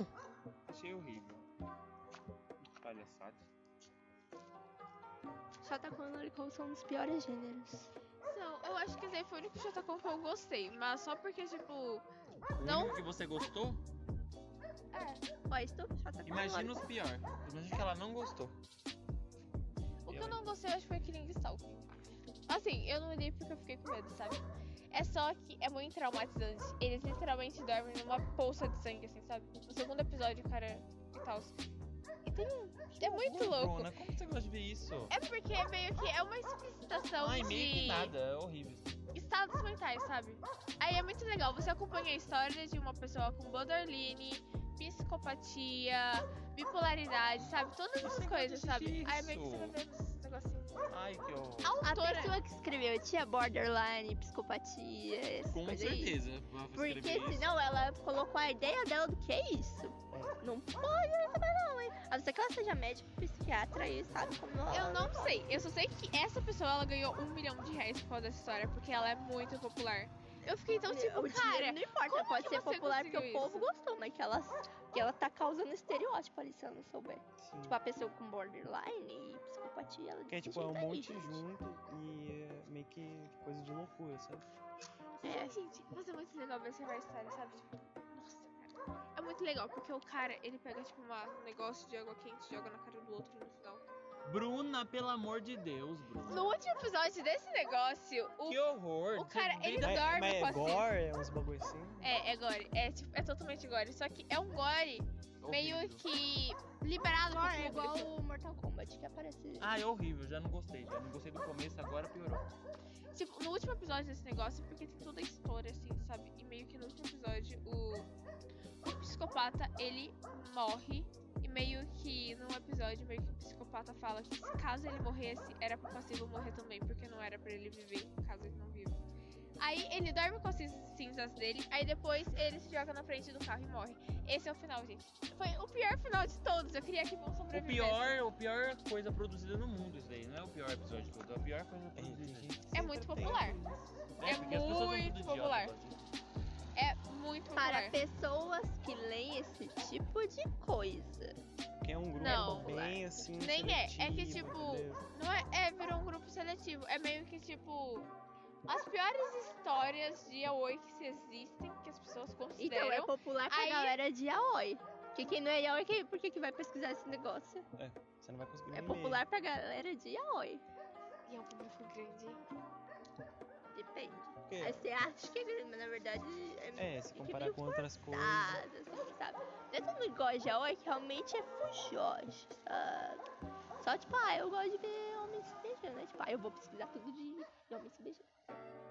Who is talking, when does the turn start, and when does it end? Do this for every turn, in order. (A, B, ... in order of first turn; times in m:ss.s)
0:00.7-0:01.4 A
0:02.8-0:03.4 A
0:05.6-0:07.9 B
0:08.2-0:12.1 C
0:12.6-0:13.8 A
0:12.6-0:13.0 C
0:14.9-0:15.2 C
0:15.5-0:16.9 B
0:16.2-0:18.6 A
0:20.0-0:21.9 C
0:20.1-0:20.4 A
0:22.5-0:31.5 C
0:32.2-0:33.9 C
0:33.0-0:35.1 A
0:35.1-0:38.2 C
0:37.2-0:38.9 A
0:39.1-0:50.8 C
0:47.4-0:49.8 A
0:50.9-0:51.8 A
0:51.6-0:52.4 C
0:51.8-0:56.2 B
0:55.5-0:57.5 A
0:56.7-1:05.3 B
1:00.1-1:00.4 D
1:04.7-1:13.7 C
1:10.8-1:21.4 B
1:17.4-1:17.8 D
1:20.3-1:24.5 D
1:25.2-1:33.9 C
1:25.2-1:25.6 B
1:34.2-1:36.5 A
1:36.2-1:40.9 C
1:38.4-1:40.1 A
1:39.8-1:42.1 D
1:42.0-1:48.1 C
1:45.4-1:46.0 A
1:47.3-1:49.7 B
1:49.6-1:52.5 A
1:53.1-1:58.1 C
1:58.8-2:09.0 C
2:09.6-2:18.1 C
2:17.5-2:22.5 A
2:22.0-2:24.1 D
2:22.7-2:23.6 C
2:24.2-2:26.0 A
2:24.2-2:25.8 C
2:26.7-2:28.0 C
2:27.5-2:31.4 B
2:31.8-2:35.0 D
2:32.2-2:38.1 C
2:32.3-2:33.0 B
2:38.7-2:44.0 C
2:42.6-2:47.6 B
2:47.8-2:49.2 D
2:48.7-2:50.6 B
2:51.3-2:52.4 C
2:53.7-3:03.2 B
2:54.4-2:54.9 D
2:56.8-2:58.6 D
3:03.8-3:08.4 B